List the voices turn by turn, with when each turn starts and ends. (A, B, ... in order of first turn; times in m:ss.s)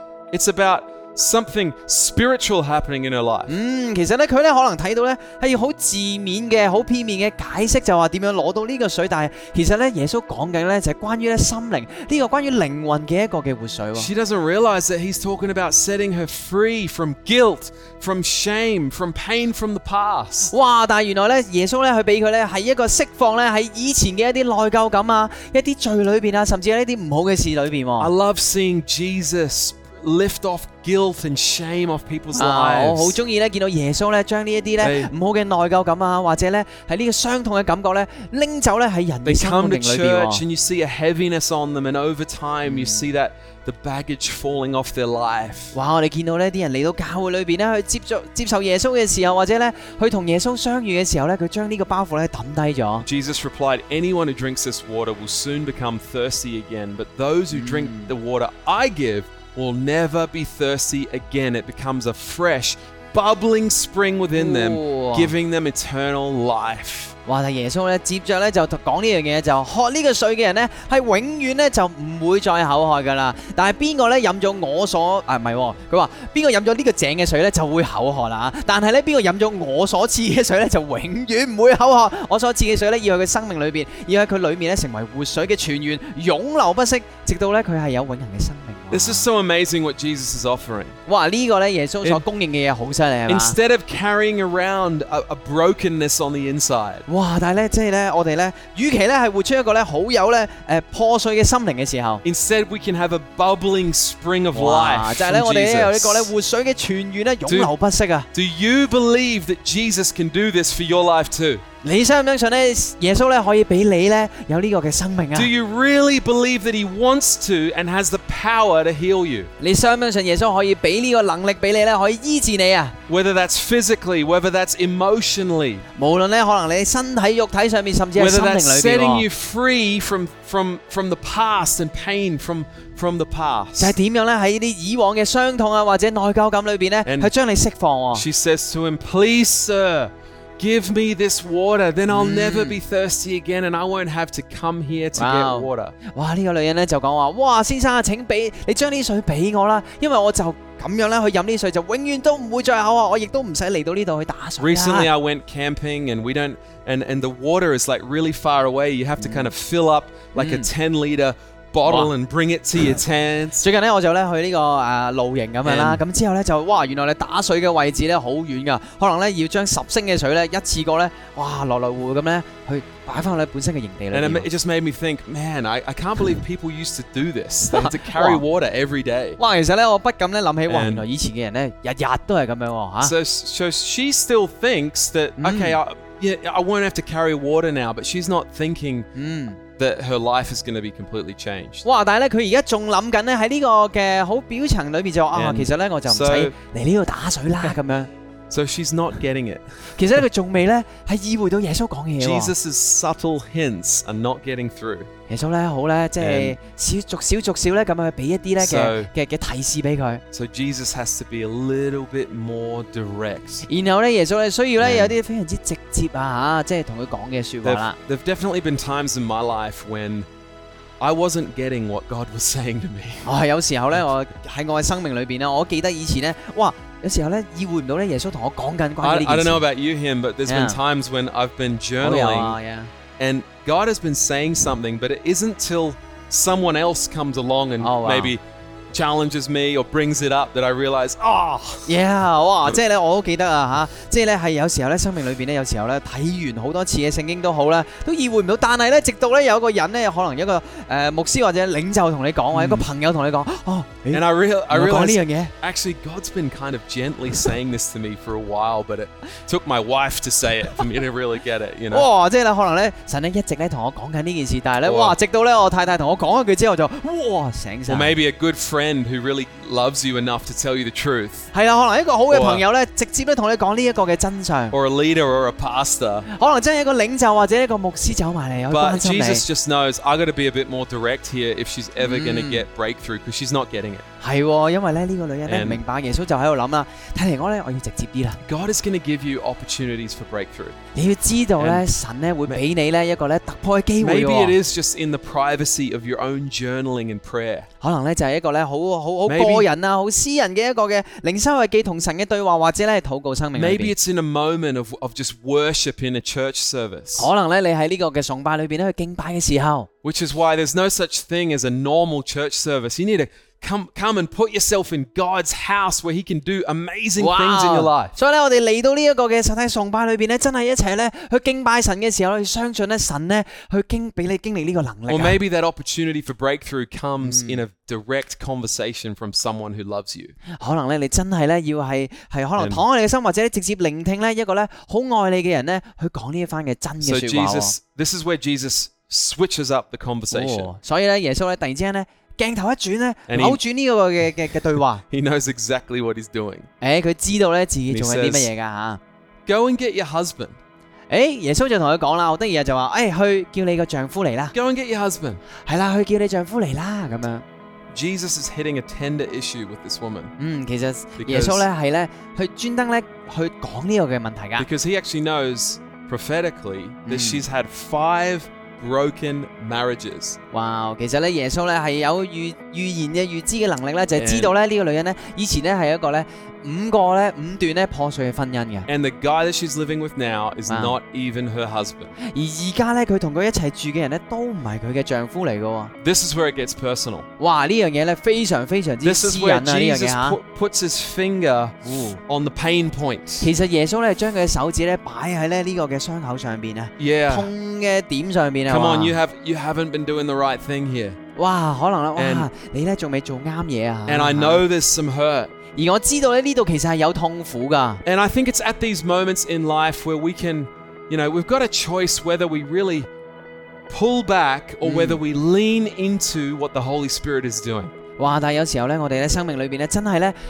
0:00.3-0:03.5 A
0:03.5-0:14.1 B
0:14.0-0:20.5 A
0:20.5-0:28.1 B
0:28.0-0:33.2 A
0:32.3-0:40.4 B
0:34.8-0:35.1 A
0:39.2-0:45.8 A
0:42.7-0:43.1 B
0:45.7-0:53.1 B
0:53.0-1:07.2 A
0:57.5-0:58.1 B
1:04.4-1:05.3 B
1:07.2-1:29.2 B
1:28.9-1:31.0 A
1:31.1-1:33.6 B
1:33.3-1:37.0 A
1:37.1-1:42.2 B
1:42.2-1:46.3 A
1:44.5-1:48.3 B
1:47.5-1:47.7 A
1:48.3-1:51.6 A
1:51.8-1:55.5 B
1:55.3-1:59.5 A
1:59.6-2:03.0 B
2:03.1-2:05.8 A
2:06.0-2:09.2 B
2:08.2-2:14.0 A
2:13.8-2:18.2 B
2:17.0-2:17.3 A
2:18.1-2:26.0 A
2:22.1-2:22.8 B
2:25.2-2:35.1 B
2:34.6-2:43.6 A
2:39.2-2:39.5 B
2:40.4-2:40.7 B
2:43.6-2:54.5 B
2:45.6-2:46.0 A
2:54.1-2:59.4 A
2:57.7-2:58.4 B
2:59.4-3:03.1 B
3:00.7-3:01.0 A
3:03.0-3:09.1 A
3:05.4-3:05.8 B
3:09.2-3:09.6 B
3:09.8-3:11.8 A
3:11.8-3:18.1 B
3:15.3-3:16.5 A
3:18.5-3:19.6 A
3:20.0-3:22.5 B
3:22.2-3:25.1 A
3:25.3-3:30.2 B
3:26.2-3:26.6 A
3:28.6-3:29.1 A
3:30.3-3:33.7 A
3:33.7-3:38.0 B
3:34.8-3:35.2 A
3:37.6-3:40.2 A
3:41.0-3:43.3 A
3:43.2-3:49.6 B
3:49.0-3:52.6 A
3:50.5-3:50.8 B
3:52.0-3:52.9 B
3:53.2-4:01.9 A
3:57.8-3:58.4 B
4:01.9-4:15.5 B
4:12.5-4:12.9 A
4:14.1-4:22.1 A
4:21.9-4:28.2 B
4:24.8-4:25.2 A
4:27.9-4:31.5 A
4:31.5-4:34.8 B
4:32.3-4:32.6 A
4:34.7-4:36.3 A
4:36.3-4:39.4 B
4:38.7-4:44.0 A
4:42.0-4:42.6 B
4:44.2-4:48.4 B
4:45.5-4:45.8 A
4:48.4-4:50.8 A
4:51.0-4:54.6 B
4:51.6-4:51.8 A
4:54.0-4:57.7 A
4:57.8-5:03.9 B
4:59.2-4:59.7 A
5:03.5-5:07.3 A
5:07.2-5:09.9 B
5:10.0-5:18.1 A
5:17.2-5:25.4 B
5:25.1-5:30.4 A
5:27.2-5:27.6 B
5:30.5-5:37.8 B
5:32.6-5:32.8 A
5:37.0-5:40.7 A
5:40.3-5:45.0 B
5:43.3-5:43.6 A
5:44.7-5:46.7 A
5:46.8-5:49.0 B
5:47.9-5:48.5 A
5:49.5-5:50.6 A
5:51.1-5:54.5 B
5:54.5-5:55.4 A
5:55.7-5:57.4 B
5:57.9-6:00.3 A
6:00.4-6:04.7 B
6:01.2-6:01.7 A
6:04.6-6:10.4 A
6:07.1-6:07.4 B
6:10.5-6:18.9 B
6:14.2-6:14.5 A
6:18.9-6:22.1 A
6:20.7-6:21.0 B
6:22.2-6:25.9 B
6:26.0-6:27.2 A
6:27.4-6:30.4 B
6:29.0-6:33.5 A
6:31.8-6:32.2 B
6:33.4-6:39.2 B
6:37.0-6:37.5 A
6:38.7-6:41.2 A
6:41.4-6:44.6 B
6:42.2-6:42.5 A
6:44.1-6:45.5 A
6:45.8-6:48.0 B
6:48.0-6:53.1 A
6:53.9-6:57.9 A
6:54.8-6:55.2 B
6:58.2-7:00.4 B